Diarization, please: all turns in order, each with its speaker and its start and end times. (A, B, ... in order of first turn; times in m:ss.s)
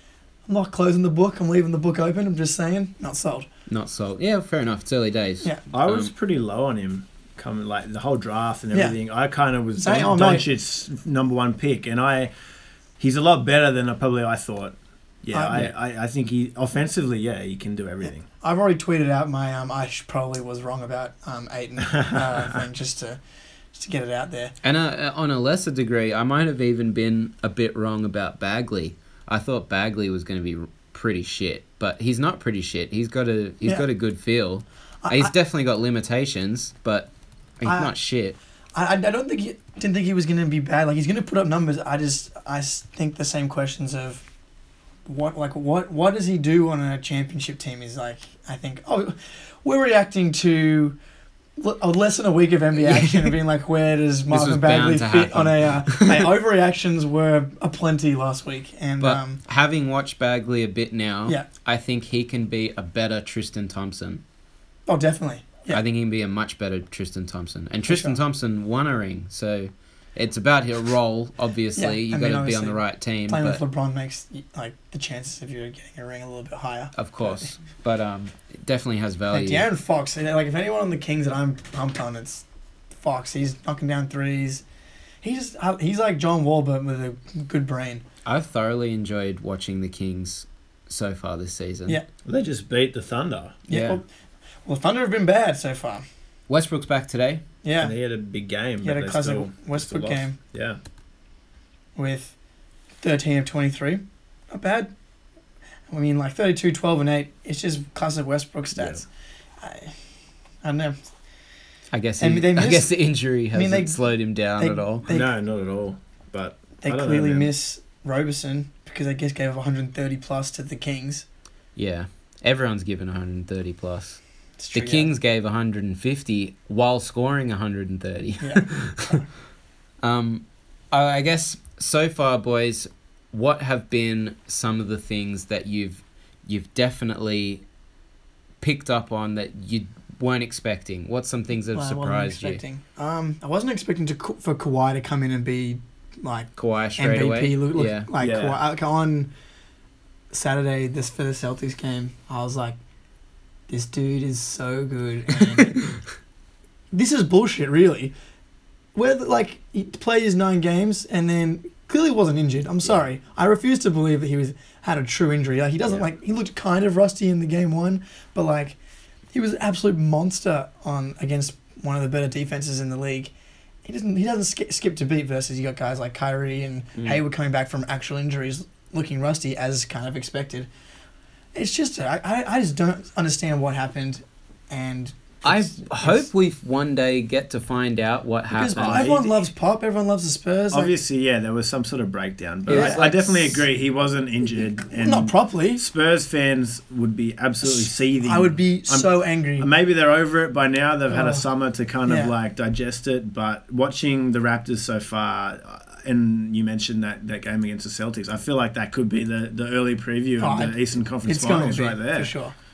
0:00.5-0:03.5 A
0:03.7-0:06.1 B
0:05.7-0:12.3 C
0:09.8-0:10.5 A
0:13.0-0:18.3 C
0:15.3-0:15.6 A
0:18.0-0:23.2 A
0:22.0-0:22.5 C
0:23.7-0:24.5 A
0:24.6-0:37.1 B
0:35.0-0:35.3 A
0:37.6-0:38.4 B
0:37.6-0:37.9 A
0:38.8-0:44.2 A
0:45.1-0:51.0 A
0:51.6-0:59.4 A
0:52.8-0:53.4 B
0:54.3-0:56.3 B
0:59.0-1:04.2 B
1:04.9-1:05.8 A
1:05.7-1:13.6 B
1:07.9-1:08.2 A
1:11.8-1:17.5 A
1:17.0-1:19.7 B
1:19.3-1:22.4 A
1:23.0-1:24.6 A
1:25.2-1:28.0 A
1:28.2-1:32.0 B
1:32.3-1:33.6 C
1:33.7-1:34.0 B
1:33.7-1:34.0 A
1:34.7-1:36.0 A
1:36.5-1:37.4 B
1:37.6-1:37.9 A
1:37.8-1:40.8 C
1:38.8-1:40.4 A
1:42.0-1:42.4 A
1:43.0-1:44.9 A
1:45.9-1:49.1 A
1:48.8-1:49.0 C
1:49.6-1:49.9 A
1:50.6-1:51.0 A
1:51.9-1:55.1 B
1:52.2-1:52.9 A
1:53.5-1:54.0 A
1:54.6-1:55.3 A
1:55.1-1:57.5 C
1:56.8-2:01.3 A
2:01.8-2:04.2 B
2:04.6-2:05.1 A
2:04.7-2:09.2 B
2:08.4-2:09.3 A
2:10.0-2:17.6 B
2:18.6-2:22.6 B
2:21.7-2:29.3 A
2:26.6-2:28.1 B
2:28.2-2:28.6 C
2:30.3-2:32.8 A
2:33.7-2:35.8 A
2:36.9-2:38.1 A
2:39.0-2:48.8 A
2:49.3-2:53.3 A
2:53.8-3:00.7 A
3:01.6-3:06.3 A
3:05.4-3:09.1 B
3:08.5-3:10.9 A
3:08.8-3:09.4 C
3:10.7-3:32.3 C
3:12.7-3:13.2 B
3:12.7-3:13.3 A
3:15.0-3:15.8 A
3:17.7-3:19.7 A
3:21.1-3:21.4 A
3:22.1-3:22.3 A
3:30.4-3:30.8 A
3:31.3-3:32.6 A